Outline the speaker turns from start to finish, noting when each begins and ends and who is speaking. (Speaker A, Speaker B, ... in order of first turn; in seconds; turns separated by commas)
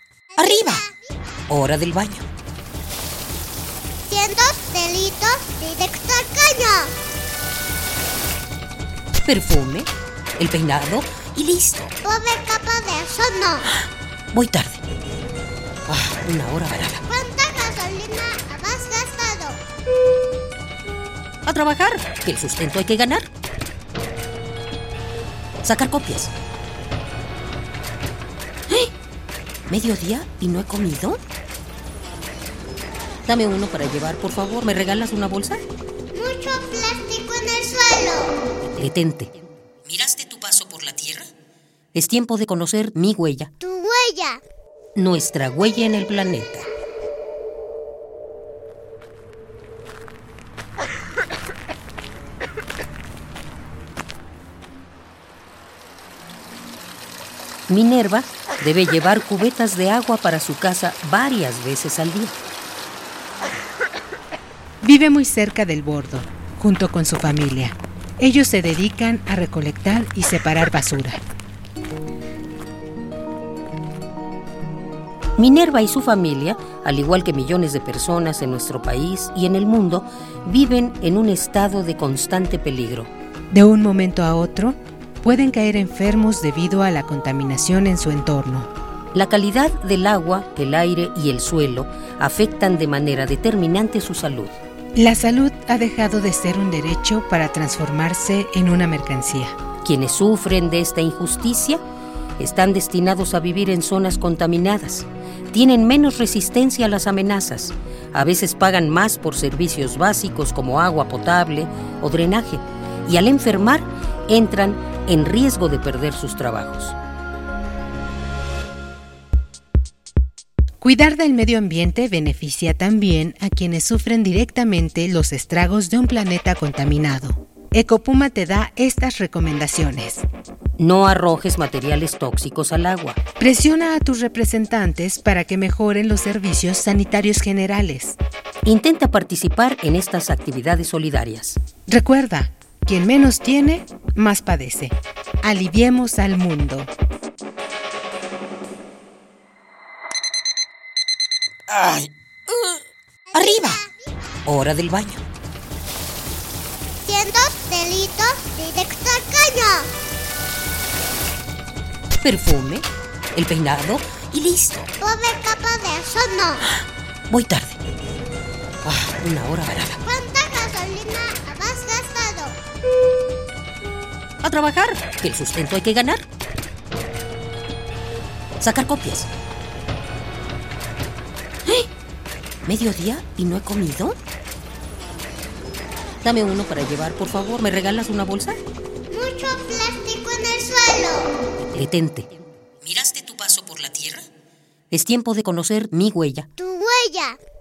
Speaker A: 0.3-1.0, Speaker B: 0.4-0.8, Speaker B: 1.5-2.3, Speaker A: 4.1-6.9, Speaker B: 9.2-11.9, Speaker A: 12.0-13.7, Speaker B: 14.3-14.8, Speaker B: 15.9-17.0, Speaker A: 17.1-19.6, Speaker B: 21.4-23.3, Speaker B: 25.6-26.3, Speaker B: 29.7-31.2, Speaker B: 33.2-35.6, Speaker A: 36.1-38.4, Speaker B: 38.8-39.3, Speaker B: 39.8-41.3, Speaker B: 41.9-43.5, Speaker A: 43.6-44.4, Speaker B: 45.0-46.7, Speaker B: 57.7-62.4, Speaker C: 64.8-71.2, Speaker B: 75.4-83.1, Speaker C: 83.5-88.7, Speaker B: 89.1-94.5, Speaker C: 95.0-99.6, Speaker B: 99.8-101.8, Speaker B: 102.4-117.0, Speaker C: 120.8-130.2, Speaker B: 130.8-133.2, Speaker C: 133.4-138.2, Speaker B: 138.6-141.6, Speaker C: 141.9-146.9, Speaker B: 151.7-152.8, Speaker A: 153.3-153.9, Speaker B: 153.3-153.8, Speaker B: 154.4-155.2, Speaker A: 157.0-159.9, Speaker B: 162.1-164.9, Speaker A: 165.0-166.7, Speaker B: 167.3-167.8, Speaker B: 168.8-170.0, Speaker A: 170.0-172.6, Speaker B: 174.4-176.2, Speaker B: 178.6-179.3, Speaker B: 182.7-184.2, Speaker B: 186.2-188.6, Speaker A: 189.1-191.3, Speaker B: 191.7-194.2, Speaker B: 194.9-196.5, Speaker A: 196.6-197.4